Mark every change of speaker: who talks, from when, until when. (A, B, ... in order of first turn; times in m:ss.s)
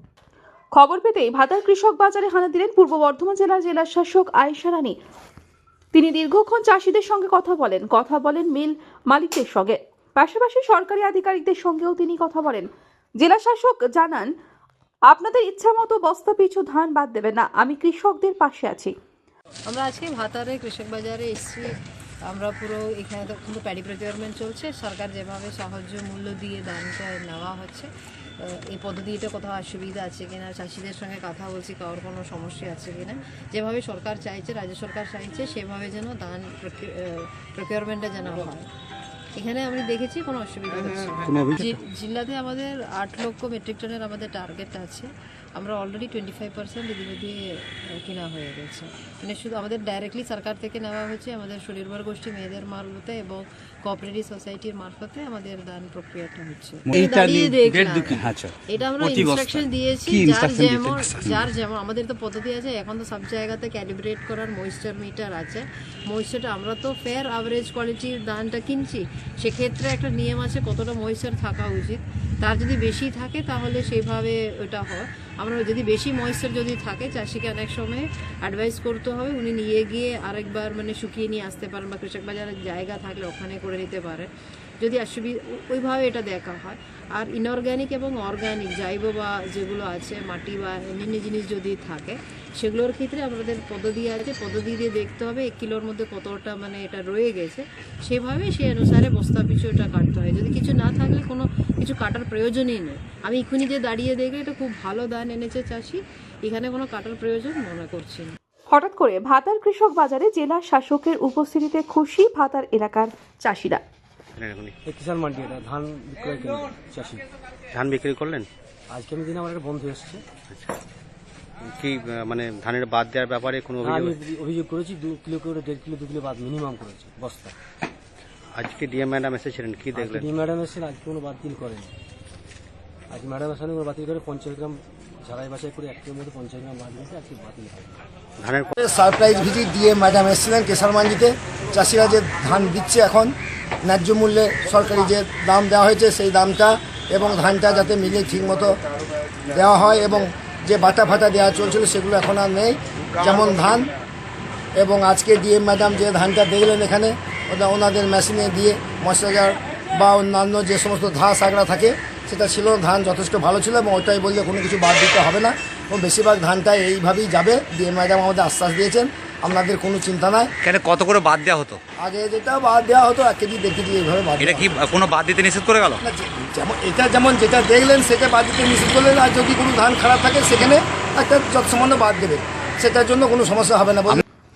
0:00.7-0:04.9 A
0:05.9-0:12.7 A
0:13.2-0:14.3 A
0:15.1-0:18.9 A
0:19.7-0:21.6 B
0:22.3-0:27.9 B
0:28.4-0:38.7 B
0:39.3-1:24.3 B
0:41.3-0:41.8 C
0:56.9-1:01.4 D
1:24.8-1:48.3 B
1:48.7-1:53.8 A
1:54.4-1:54.7 E
1:54.8-1:57.2 C
1:57.7-1:58.5 E
1:58.9-2:00.2 C
2:00.5-2:00.8 E
2:01.6-2:04.2 E
2:03.8-2:07.5 C
2:08.6-2:10.3 E
2:09.9-2:11.9 C
2:13.1-2:18.0 C
2:18.4-2:18.7 E
2:18.8-2:28.8 F
2:29.5-2:33.9 F
2:34.7-2:50.5 F
2:50.6-2:51.8 D
2:52.0-2:54.9 F
2:54.4-2:56.0 D
2:56.0-3:04.2 F